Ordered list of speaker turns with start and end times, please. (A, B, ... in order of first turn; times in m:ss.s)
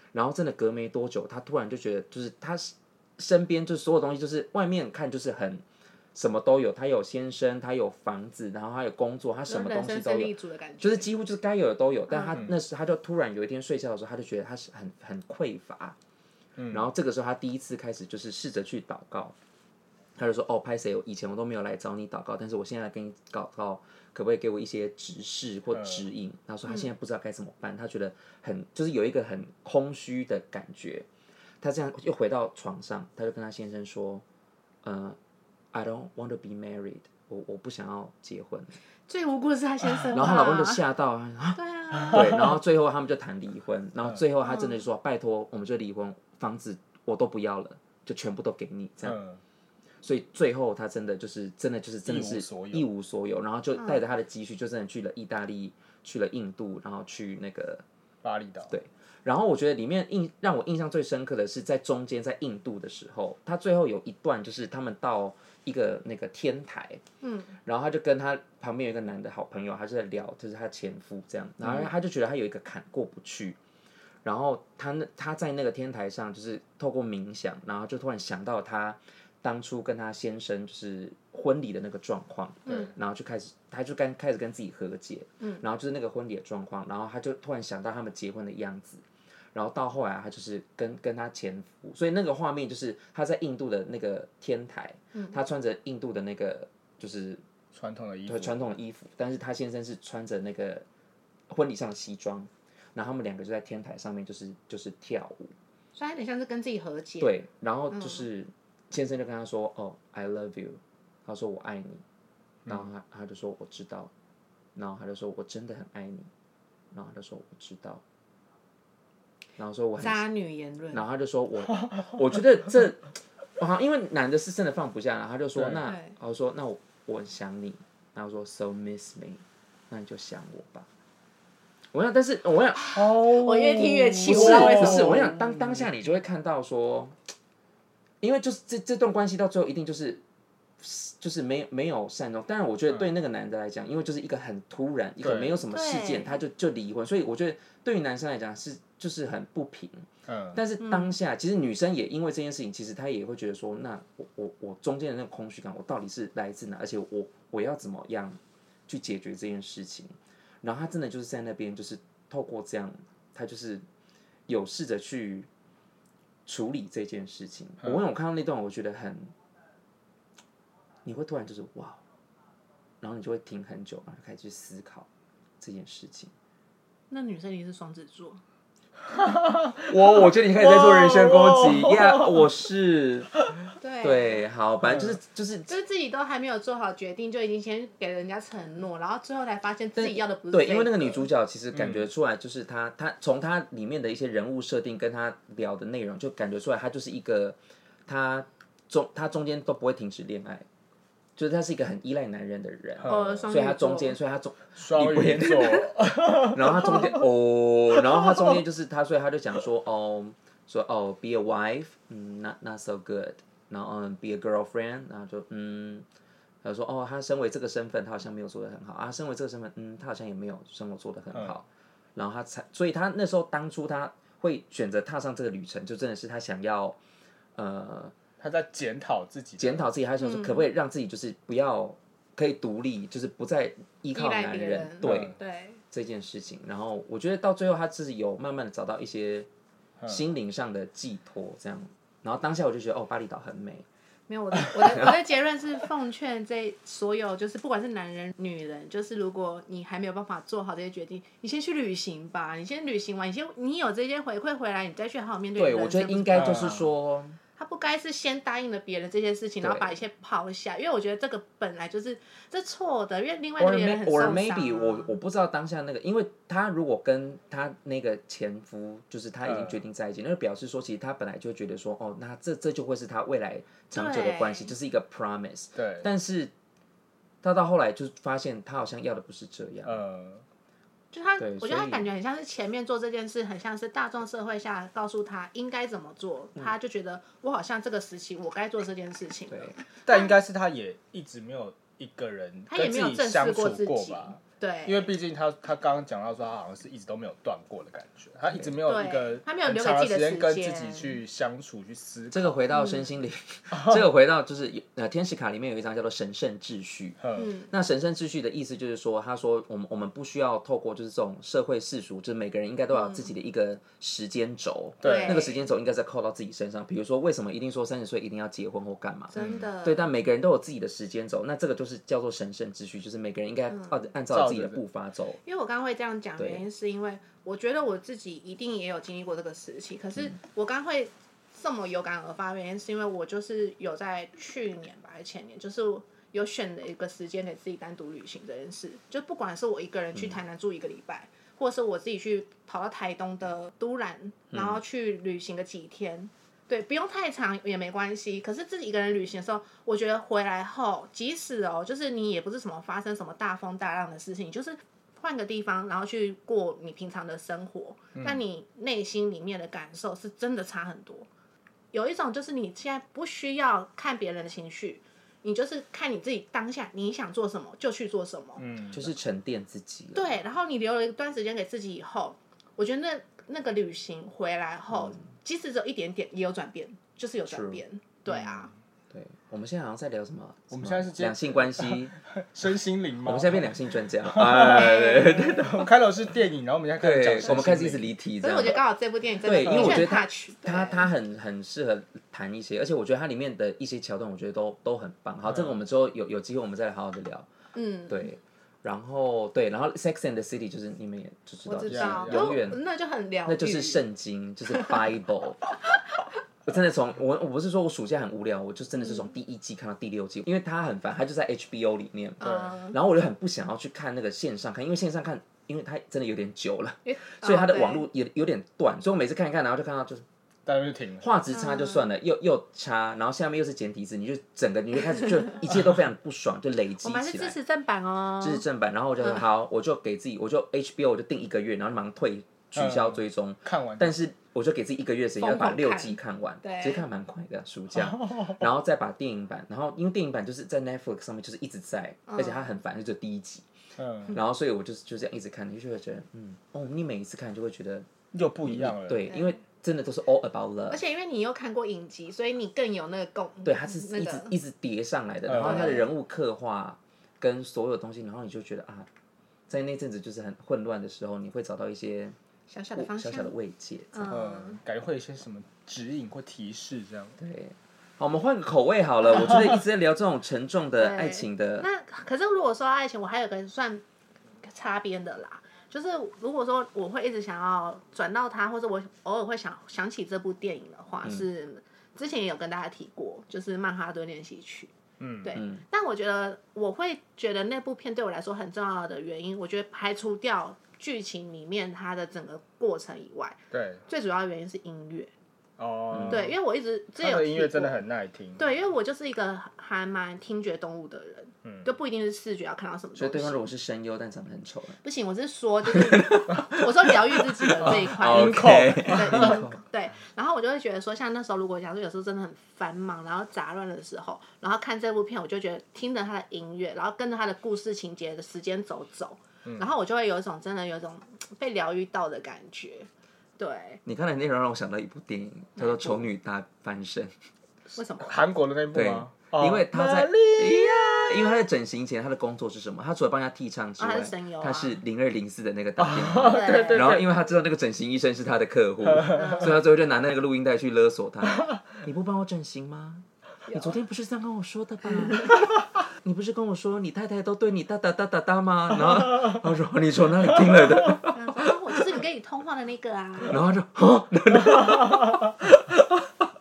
0:00.1-0:16.0 A
0:09.5-0:11.1 B
0:12.1-0:12.4 B
0:16.6-0:16.9 C
0:16.7-0:19.3 A
0:20.2-0:31.1 A
0:25.7-0:26.1 C
0:31.6-0:34.2 A
0:34.8-0:35.2 A
0:35.7-0:38.8 A
0:39.1-0:40.8 B
0:40.1-0:49.2 A
0:41.5-0:42.3 B
0:42.1-0:42.4 C
0:44.4-0:44.8 B
0:49.0-0:49.4 C
0:50.0-0:57.8 A
0:52.0-0:52.8 C
0:53.8-0:54.0 B
0:58.2-0:58.7 C
0:58.7-1:07.0 A
1:07.2-1:07.5 B
1:07.6-1:13.6 A
1:14.2-1:37.4 A
1:37.7-1:38.6 C
1:38.3-1:40.8 A
1:41.5-1:45.5 A
1:45.9-1:47.3 B
1:47.2-1:52.0 A
1:47.9-1:48.2 B
1:52.7-1:54.1 A
1:54.7-1:56.3 A
1:56.9-1:58.0 A
1:59.6-2:00.3 A
2:00.0-2:01.0 B
2:00.9-2:03.1 A
2:03.6-2:10.9 A
2:05.6-2:05.8 C
2:05.8-2:06.1 B
2:11.9-2:13.0 A
2:12.9-2:15.9 C
2:13.2-2:15.3 B
2:14.2-2:17.1 A
2:18.2-2:20.2 A
2:20.8-2:43.8 A
2:25.2-2:25.6 C
2:25.7-2:26.3 B
2:30.3-2:30.6 C
2:30.8-2:31.1 B
2:44.5-2:45.5 A
2:46.4-2:49.3 A
2:51.0-2:52.0 A
2:53.0-2:55.1 A
2:55.6-2:56.3 A
2:57.1-2:58.4 B
2:59.1-3:02.5 C
2:59.8-3:03.4 A
3:03.8-3:04.4 B
3:04.0-3:05.7 A
3:04.8-3:05.2 C
3:05.7-3:11.3 B
3:10.0-3:20.6 A
3:11.7-3:12.1 C
3:21.4-3:36.0 A
3:23.0-3:23.5 C
3:23.1-3:24.2 B
3:24.8-3:27.2 C
3:36.6-3:47.0 A
3:47.5-3:48.1 A
3:48.4-3:49.9 C
3:49.6-3:55.3 A
3:50.2-3:50.7 B
3:54.1-3:55.8 B
3:55.0-3:55.4 C
3:55.9-3:59.5 A
4:00.1-4:03.8 A
4:04.3-4:16.6 B
4:04.7-4:05.1 A
4:15.6-4:17.4 A
4:16.3-4:16.9 C
4:17.6-4:25.1 B
4:19.6-4:19.9 A
4:23.6-4:36.5 A
4:29.4-4:29.8 C
4:33.9-4:34.7 B
4:35.8-4:36.1 C
4:37.4-4:40.0 A
4:39.8-4:40.4 C
4:41.1-4:50.3 B
4:41.4-4:42.1 A
4:50.0-5:02.6 C
4:52.7-4:55.1 B
4:58.8-5:01.2 B
5:02.3-5:07.2 A
5:02.7-5:03.0 B
5:03.7-5:04.0 C
5:07.2-5:07.5 C
5:07.4-5:07.7 B
5:07.7-5:25.4 A
5:12.9-5:13.3 B
5:15.0-5:15.5 C
5:15.0-5:15.6 B
5:19.3-5:20.1 B
5:19.4-5:19.6 C
5:24.3-5:24.8 C
5:25.4-6:01.3 B
5:26.4-5:26.6 A
5:44.5-5:44.8 A
6:01.9-6:08.6 B
6:08.6-6:09.1 C
6:08.9-6:10.4 A
6:10.1-6:18.7 B
6:17.5-6:17.8 A
6:18.3-6:18.6 C
6:19.1-6:22.1 A
6:20.7-6:28.1 C
6:23.2-6:25.9 A
6:24.7-6:25.6 B
6:27.0-6:28.8 A
6:28.4-6:31.1 B
6:29.4-6:37.5 A
6:29.6-6:30.1 C
6:35.4-6:35.8 C
6:37.7-6:38.3 B
6:38.1-6:42.8 A
6:41.6-6:44.0 B
6:41.9-6:42.6 C
6:43.4-6:45.7 A
6:46.6-7:00.2 A
6:52.4-6:53.0 B
6:52.4-6:52.7 C
6:57.0-6:58.0 B
7:00.6-7:01.2 C
7:01.2-7:07.6 A
7:01.5-7:02.1 B
7:07.0-7:08.6 B
7:08.4-7:23.7 A
7:12.7-7:14.1 C
7:15.4-7:17.1 B
7:17.9-7:18.6 C
7:22.3-7:22.7 B
7:24.0-7:24.4 C
7:24.3-7:28.1 A
7:28.3-7:29.3 C
7:28.6-7:31.0 A
7:29.3-7:29.6 B
7:30.9-7:34.5 B
7:33.6-7:39.1 A
7:35.5-7:36.0 C
7:35.6-7:36.0 B
7:39.7-7:42.4 A
7:42.7-7:43.5 B
7:42.9-7:44.3 A
7:44.1-7:44.8 B
7:44.3-7:47.4 C
7:47.4-7:51.9 A
7:51.0-7:54.0 B
7:54.6-8:04.9 B
8:05.2-8:05.6 C
8:05.4-8:15.3 B
8:05.5-8:05.8 A
8:13.7-8:14.0 C
8:15.8-8:16.5 C
8:16.1-8:16.4 A
8:16.3-8:18.0 B
8:17.2-8:18.6 C
8:18.6-8:23.6 B
8:23.2-8:25.0 A
8:25.0-8:44.0 B
8:25.9-8:29.8 A
8:27.8-8:29.6 C
8:44.0-8:47.3 A
8:45.8-8:46.2 B
8:47.9-8:48.3 B
8:48.2-8:51.6 C
8:48.9-9:11.7 A
8:54.0-8:55.0 B
8:56.0-8:57.3 C
8:56.5-8:57.1 B
8:59.0-8:59.7 C
8:59.3-8:59.8 B
9:03.7-9:04.0 B
9:11.3-9:13.6 B
9:13.5-9:16.4 A
9:14.8-9:15.3 C